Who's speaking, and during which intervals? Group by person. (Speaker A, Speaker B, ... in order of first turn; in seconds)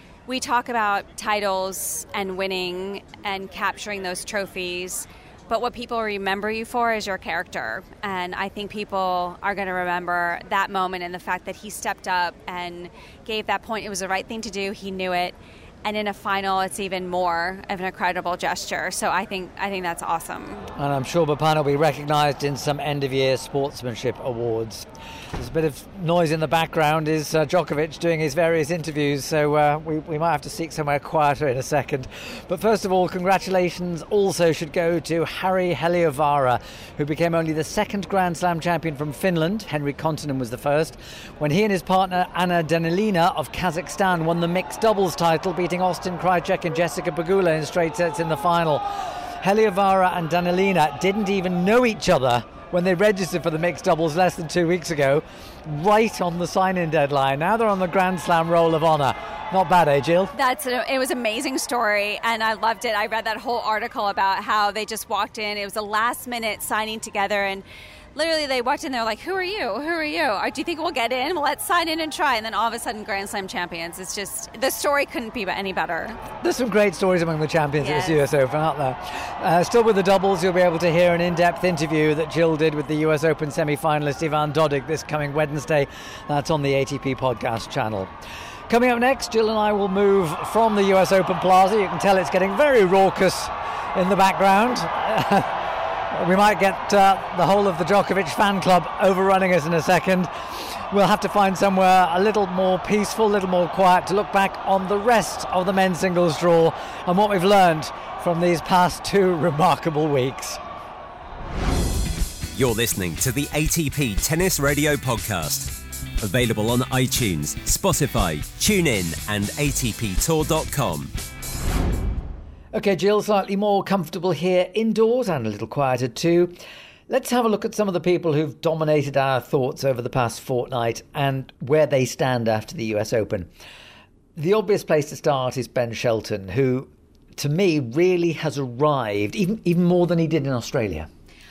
Speaker A: 0.3-20.7, 60.3-76.2, 77.8-78.2
Speaker B: 20.8-48.8, 49.4-60.3, 76.4-88.1, 88.7-110.6, 122.7-126.6, 127.1-133.5, 134.4-141.1
Speaker C: 112.5-121.1